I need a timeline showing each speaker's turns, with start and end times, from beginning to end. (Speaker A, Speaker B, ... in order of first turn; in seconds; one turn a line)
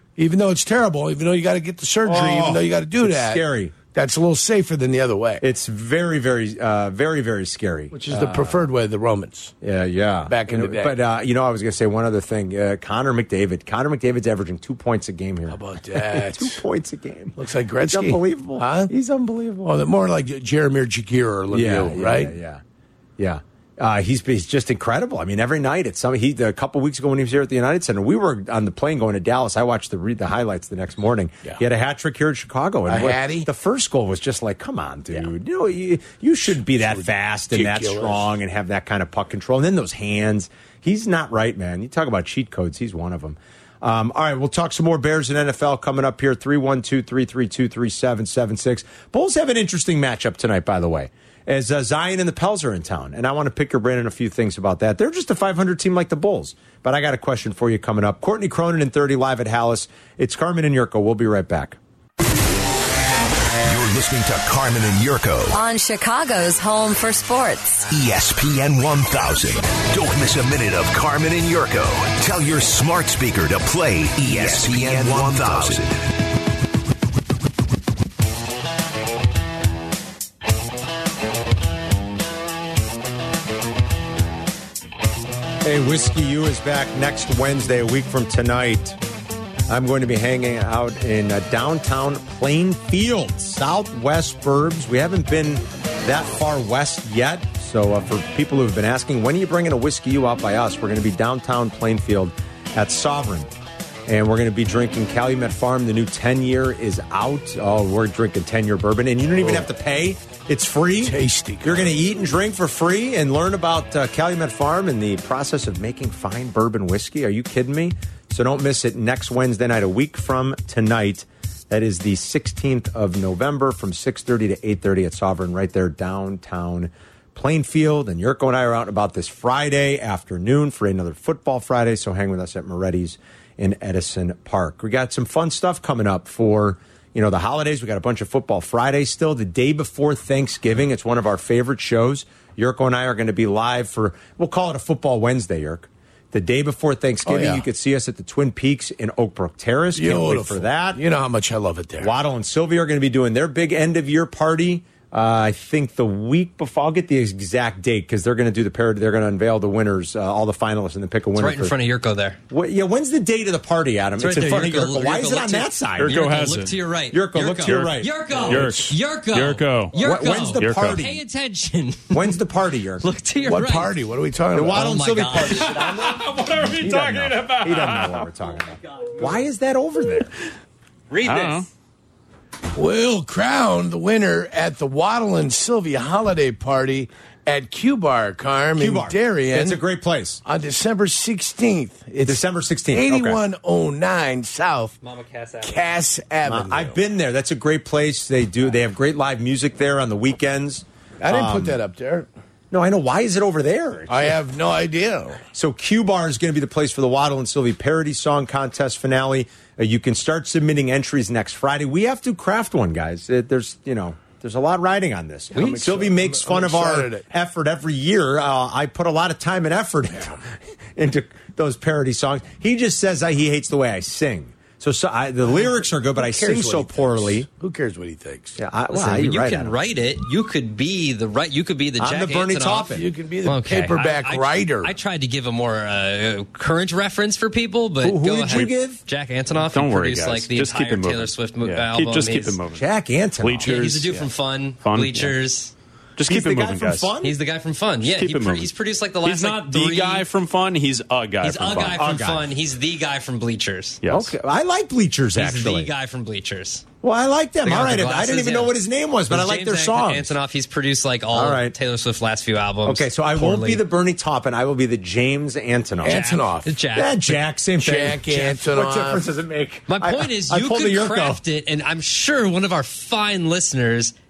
Speaker A: 0.2-5.4
Speaker B: 2.0-3.8
Speaker B: 5.4-8.7
Speaker A: 7.9-9.5
Speaker B: 9.6-19.8
Speaker A: 10.3-11.0
Speaker A: 15.5-16.6
Speaker A: 17.4-18.9
Speaker A: 19.6-22.4
Speaker B: 21.5-22.6
Speaker B: 23.2-61.8
Speaker A: 32.9-33.5
Speaker A: 36.8-38.3
Speaker C: 63.6-65.6
Speaker D: 65.5-67.9
Speaker C: 67.9-76.1
Speaker B: 85.6-89.0
Speaker B: 89.7-103.5
Speaker B: 104.1-151.0
Speaker A: 111.0-112.0
Speaker A: 147.2-147.6
Speaker A: 149.9-152.1
Speaker B: 152.0-161.7
Speaker E: 161.3-162.4
Speaker B: 162.5-166.2
Speaker E: 164.2-172.4
Speaker F: 166.0-166.8
Speaker B: 167.1-168.7
Speaker F: 167.7-171.0
Speaker B: 169.9-171.2
Speaker B: 172.1-173.1
Speaker E: 173.0-174.0
Speaker A: 173.4-174.9
Speaker B: 174.5-180.3
Speaker E: 174.8-175.9
Speaker F: 175.6-178.2
Speaker E: 181.1-181.6
Speaker F: 181.2-181.7
Speaker A: 182.8-189.8
Speaker B: 188.8-190.4
Speaker A: 190.4-194.9
Speaker B: 192.2-193.4
Speaker E: 195.0-195.8
Speaker A: 195.6-197.0
Speaker B: 196.5-201.8
Speaker A: 201.2-202.3
Speaker B: 202.7-204.4
Speaker A: 204.1-205.4
Speaker B: 205.5-220.4
Speaker A: 215.5-217.3
Speaker B: 221.0-227.5
Speaker A: 226.2-228.6
Speaker B: 228.6-229.8
Speaker E: 228.9-242.6
Speaker B: 232.0-233.1
Speaker A: 233.0-234.9
Speaker B: 238.0-239.0
Speaker F: 239.5-242.8
Speaker B: 242.7-243.8
Speaker F: 243.4-244.3
Speaker E: 243.6-245.7
Speaker F: 244.8-245.3
Speaker F: 246.2-247.1
Speaker B: 246.3-247.3
Speaker E: 247.2-250.3
Speaker F: 248.0-248.7
Speaker F: 249.2-252.1
Speaker E: 251.4-254.0
Speaker B: 252.0-252.5
Speaker F: 254.0-254.3
Speaker B: 254.1-255.9
Speaker E: 255.4-256.9
Speaker B: 257.0-260.4
Speaker E: 257.6-258.8
Speaker E: 259.3-263.8
Speaker B: 261.3-261.8
Speaker B: 262.9-266.3
Speaker A: 266.0-266.8
Speaker E: 266.1-267.4
Speaker B: 266.9-271.4
Speaker A: 267.8-269.3
Speaker E: 269.9-274.1